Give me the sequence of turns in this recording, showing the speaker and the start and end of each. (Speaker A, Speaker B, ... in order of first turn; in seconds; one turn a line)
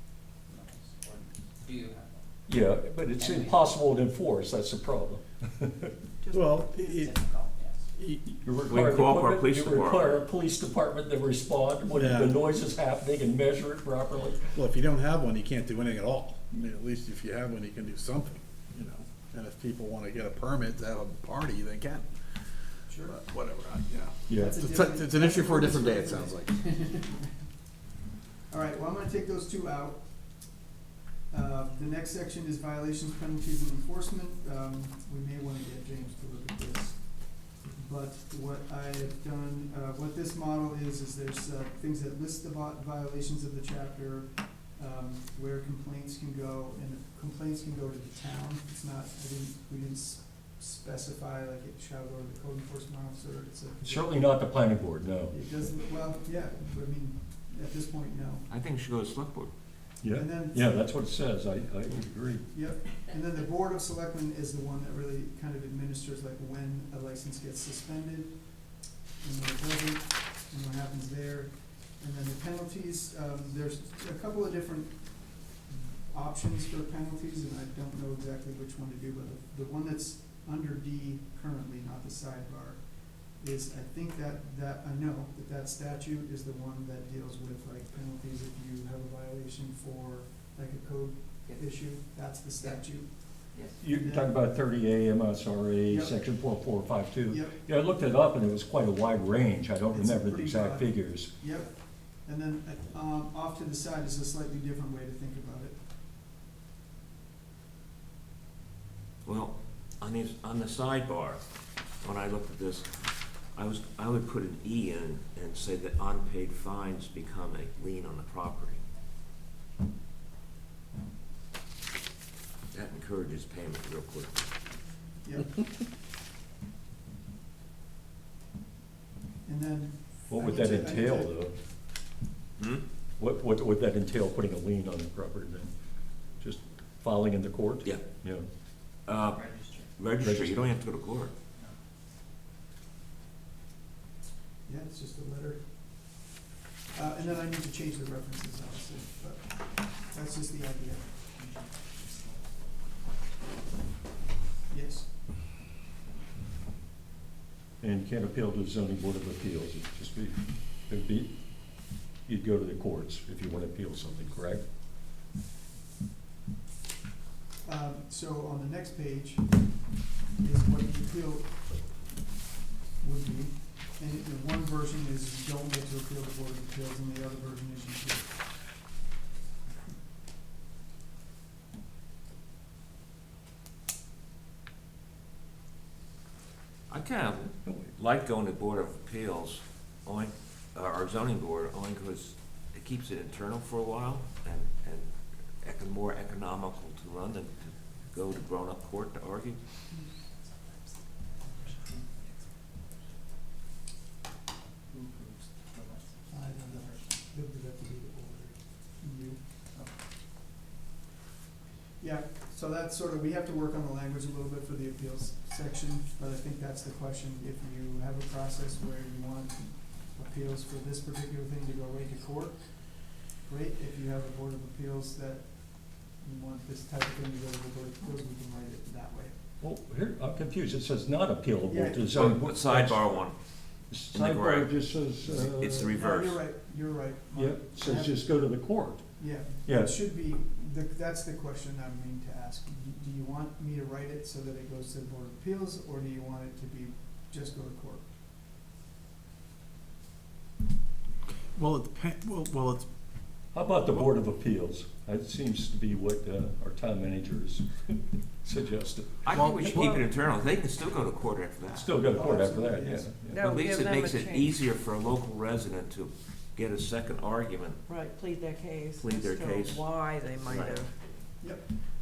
Speaker A: 0.5-2.3
Speaker B: 2.5-5.9
Speaker A: 3.2-3.8
Speaker C: 6.3-7.1
Speaker A: 6.7-7.9
Speaker C: 8.0-8.3
Speaker B: 8.4-14.5
Speaker D: 8.7-10.2
Speaker C: 11.9-12.4
Speaker C: 14.5-22.1
Speaker E: 22.9-23.1
Speaker C: 23.0-26.6
Speaker B: 24.3-24.6
Speaker E: 24.3-27.2
Speaker E: 28.5-30.6
Speaker E: 31.3-54.3
Speaker B: 53.8-55.4
Speaker E: 55.3-58.5
Speaker D: 58.5-59.5
Speaker B: 60.0-62.5
Speaker E: 60.1-60.7
Speaker E: 62.5-94.3
Speaker B: 93.8-101.3
Speaker E: 95.9-96.2
Speaker E: 97.3-97.5
Speaker E: 99.9-105.8
Speaker D: 109.2-111.4
Speaker D: 112.0-112.9
Speaker D: 113.5-118.8
Speaker D: 122.7-124.4
Speaker E: 125.2-125.6
Speaker E: 129.4-131.3
Speaker B: 130.3-131.5
Speaker B: 133.2-135.7
Speaker B: 136.4-138.5
Speaker D: 139.1-141.3
Speaker A: 139.3-139.9
Speaker B: 140.2-140.7
Speaker E: 144.7-146.2
Speaker E: 146.9-151.3
Speaker E: 154.7-155.1
Speaker B: 157.8-161.3
Speaker B: 162.2-164.6
Speaker E: 167.6-172.2
Speaker E: 173.0-178.3
Speaker D: 186.9-195.1
Speaker D: 195.6-199.6
Speaker A: 204.9-207.1
Speaker E: 206.3-209.4
Speaker E: 212.0-229.3
Speaker B: 229.6-233.2
Speaker E: 231.7-232.1
Speaker D: 232.1-233.3
Speaker B: 233.9-235.9
Speaker D: 234.1-236.4
Speaker E: 235.9-238.2
Speaker B: 237.3-239.0
Speaker E: 239.2-248.0
Speaker B: 239.6-240.0
Speaker C: 251.5-252.9
Speaker B: 253.5-259.6
Speaker D: 259.2-261.9
Speaker C: 259.3-260.0
Speaker B: 261.7-263.4
Speaker E: 261.8-263.1
Speaker F: 263.3-264.5
Speaker D: 263.4-267.8
Speaker F: 267.9-270.9
Speaker D: 269.0-270.8
Speaker E: 271.4-271.7